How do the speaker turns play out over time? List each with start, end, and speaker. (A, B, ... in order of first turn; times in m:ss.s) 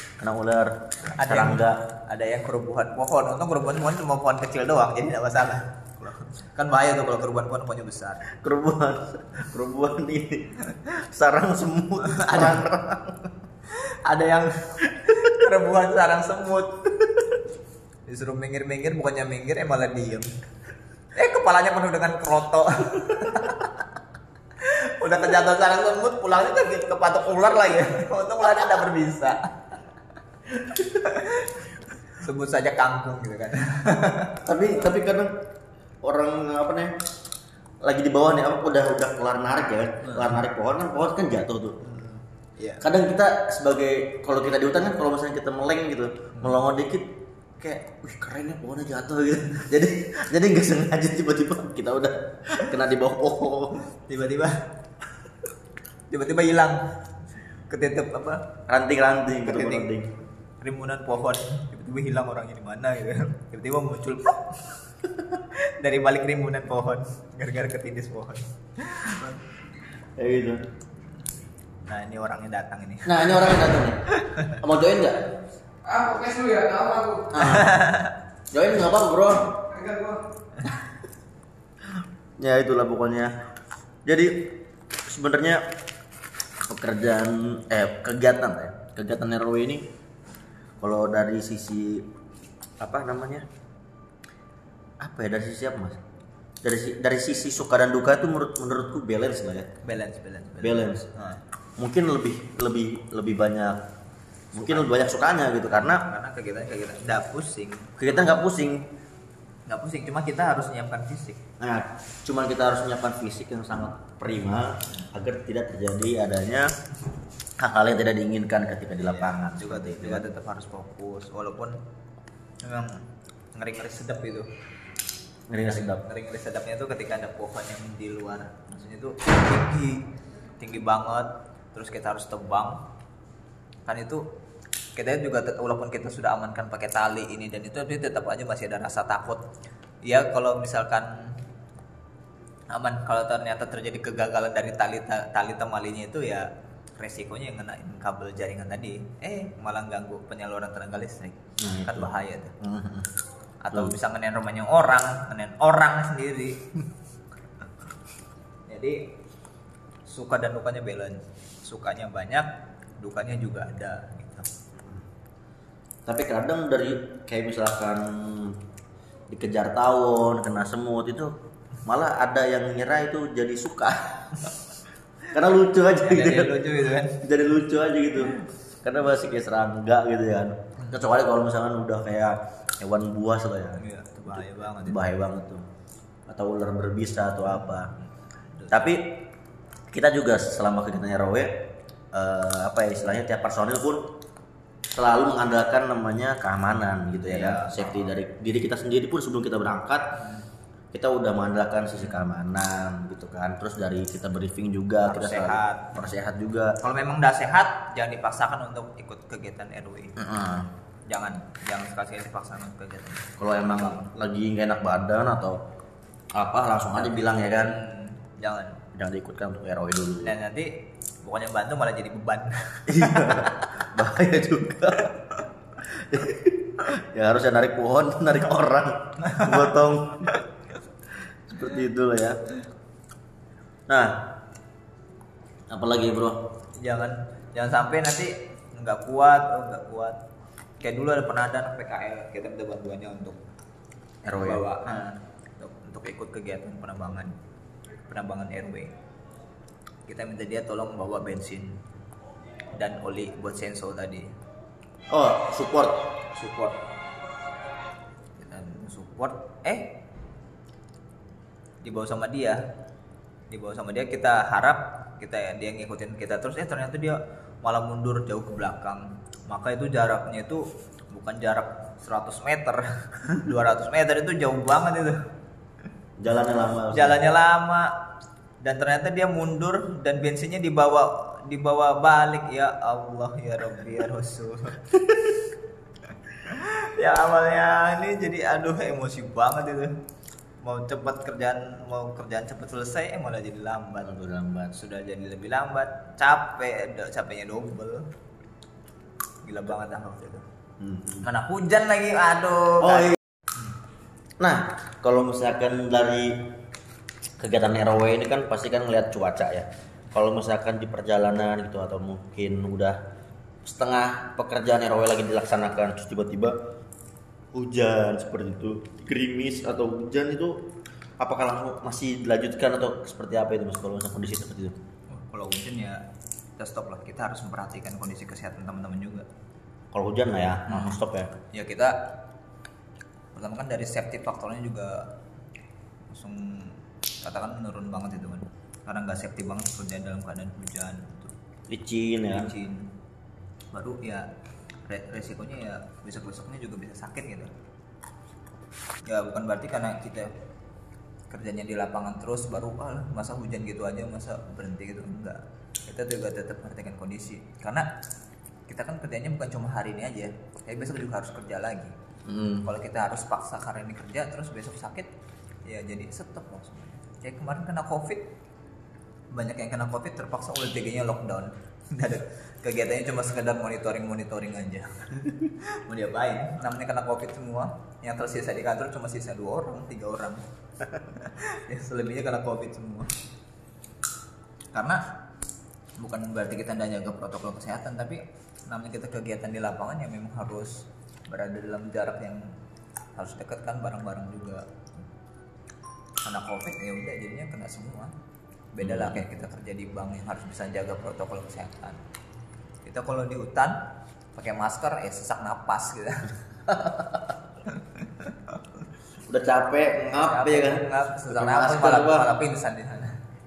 0:00.2-0:01.8 A
0:01.1-0:08.2 B
0:08.3-0:13.3 A
0:12.0-0:12.6 B
0:13.7-0:17.2 B
0:18.0-0:20.3 B
0:21.1-0:23.8 B
0:24.6-0:29.8 B
0:30.6-0:34.4 B
0:34.4-0:35.4 A
0:36.0-0:37.0 A
0:37.8-0:41.8 A
0:40.0-0:40.3 B
0:41.8-0:42.8 B
0:42.8-0:53.8 A
0:46.3-0:46.6 B
0:54.0-0:54.7 B
0:56.1-0:56.9 B
0:57.7-0:58.6 B
0:58.7-1:00.1 A
0:59.4-0:59.9 B
1:00.6-1:04.8 B
1:05.4-1:09.4 B
1:10.2-1:10.6 A
1:11.8-1:13.6 B
1:13.0-1:15.2 A
1:14.3-1:14.6 B
1:15.8-1:17.6 C
1:17.3-1:17.8 A
1:17.4-1:18.1 B
1:18.5-1:19.6 A
1:19.7-1:20.2 C
1:22.4-1:23.3 A
1:24.0-1:25.6 A
1:26.6-1:29.9 A
1:30.8-1:32.1 A
1:32.8-1:33.5 A
1:35.0-1:36.0 A
1:36.6-1:39.7 A
1:39.8-1:41.4 B
1:40.6-1:41.1 A
1:41.8-1:43.8 A
1:44.5-1:46.0 A
1:44.6-1:44.9 B
1:45.6-1:48.3 B
1:48.0-1:48.9 A
1:49.7-1:51.4 B
1:51.6-1:56.7 A
1:57.6-2:00.3 A
1:59.0-2:01.8 B
2:02.6-2:04.5 B
2:05.5-2:06.0 A
2:05.6-2:10.1 B
2:10.6-2:12.8 B
2:13.8-2:14.2 B
2:15.0-2:19.4 B
2:20.0-2:21.4 B
2:22.7-2:32.5 B
2:31.6-2:33.1 A
2:33.6-2:36.8 B
2:38.7-2:39.1 B
2:40.0-2:42.5 B
2:43.0-2:44.5 B
2:46.0-2:48.6 A
2:49.3-2:54.5 A
2:55.3-2:56.6 A
2:56.0-2:57.2 B
2:57.2-3:05.6 A
2:58.2-2:58.4 B
3:03.8-3:05.1 B
3:06.3-3:07.9 A
3:07.5-3:07.9 B
3:08.5-3:08.9 B
3:08.7-3:09.2 A
3:09.9-3:14.1 A
3:14.9-3:20.1 A
3:17.3-3:18.1 B
3:20.2-3:20.4 B
3:20.9-3:26.8 A
3:22.0-3:22.2 B
3:25.0-3:26.1 B
3:26.8-3:30.2 B
3:30.2-3:30.7 A
3:31.1-3:34.1 B
3:33.4-3:35.6 A
3:36.3-3:37.7 A
3:36.9-3:38.8 B
3:38.9-3:40.3 A
3:40.2-3:43.6 B
3:42.9-3:45.2 A
3:45.8-3:50.4 A
3:49.2-3:49.7 B
3:51.5-3:52.4 A
3:53.9-3:54.2 A
3:55.7-3:56.4 A
3:56.8-4:00.2 B
4:00.8-4:03.4 B
4:04.2-4:04.6 A
4:04.3-4:07.3 B
4:08.1-4:08.9 B
4:10.0-4:11.8 B
4:12.7-4:14.3 B
4:15.1-4:16.1 A
4:16.3-4:16.8 B
4:18.4-4:20.0 B
4:21.8-4:22.6 B
4:23.5-4:35.2 B
4:36.2-4:37.2 A
4:36.9-4:37.9 B
4:38.6-4:44.9 B
4:46.4-4:50.0 B
4:50.6-4:54.1 B
4:54.0-4:54.7 A
4:54.7-4:58.1 B
4:59.4-5:00.4 B
5:00.8-5:01.3 A
5:01.2-5:03.2 B
5:02.8-5:03.2 A
5:04.4-5:06.5 A
5:07.4-5:13.0 A
5:13.6-5:16.6 A
5:17.5-5:24.8 A
5:25.1-5:26.0 B
5:26.6-5:29.2 B
5:29.9-5:31.3 A
5:30.7-5:31.0 B
5:31.5-5:32.1 B
5:33.3-5:35.1 B
5:36.1-5:41.3 B
5:41.7-5:42.5 A
5:42.3-5:42.9 B
5:43.7-5:44.3 B
5:44.9-5:47.5 B
5:49.0-5:50.3 B
5:51.3-5:57.9 B
5:58.7-6:01.9 B
6:02.2-6:02.7 A
6:02.6-6:05.1 B
6:05.6-6:08.3 B
6:09.3-6:23.1 B
6:24.7-6:25.0 B
6:26.0-6:32.5 B
6:33.2-6:34.6 B
6:36.2-6:38.1 B
6:38.7-6:42.0 B
6:38.8-6:39.2 A
6:42.8-6:43.8 B
6:44.3-6:46.3 B
6:46.7-6:47.2 A
6:47.7-6:48.3 B
6:49.3-6:52.3 A
6:50.0-6:53.2 B